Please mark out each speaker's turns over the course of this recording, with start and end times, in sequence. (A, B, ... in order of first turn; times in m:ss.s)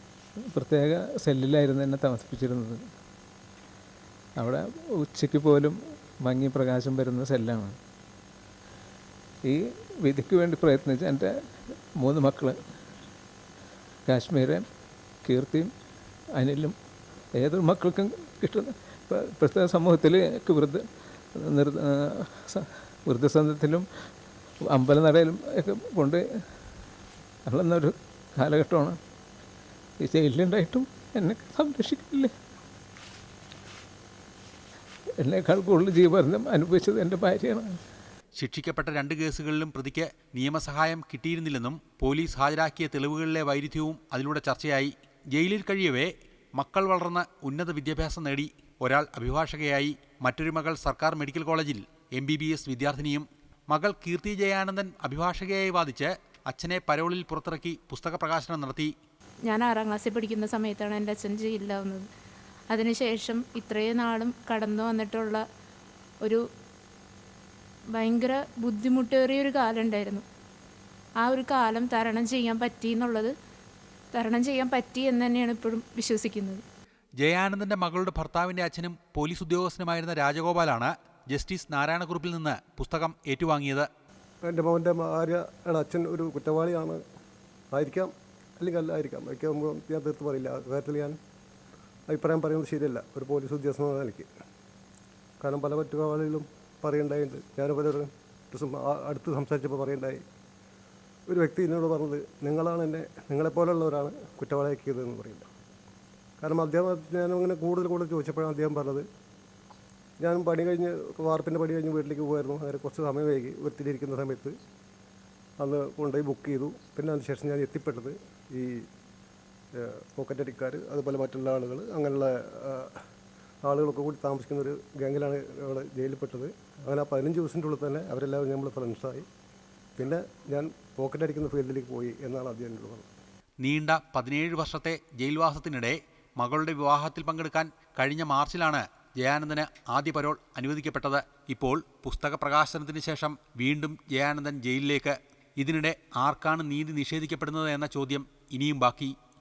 0:00.5-0:02.8 A
0:04.4-0:07.8 A
0:09.4-0:11.3 A
0:12.0-0:12.6 A
0:14.1-0:14.6 A
0:15.2-0:15.7 A
0:16.4-0:16.8 A
0:17.4-0:20.8 A
0:21.4-0:23.9 A
0:24.7-0:26.2 A
0:27.5-0:29.0 A
0:30.0-0:32.3 A
0:35.2-0:37.8 A
0:38.4-0:58.9 B
0:59.5-1:02.1 C
1:02.7-1:05.4 C
1:07.9-1:10.2 C
1:11.2-1:13.3 C
1:14.1-1:16.6 C
1:17.2-1:23.9 B
1:24.4-1:27.0 D
1:27.7-1:31.2 D
1:32.1-1:34.3 D
1:35.4-1:40.2 D
1:41.3-1:45.5 D
1:46.4-1:49.1 D
1:50.2-1:54.6 D
1:55.6-1:58.8 D
1:59.8-2:02.9 D
2:03.6-2:09.3 D
2:10.0-2:13.1 D
2:13.6-2:29.2 B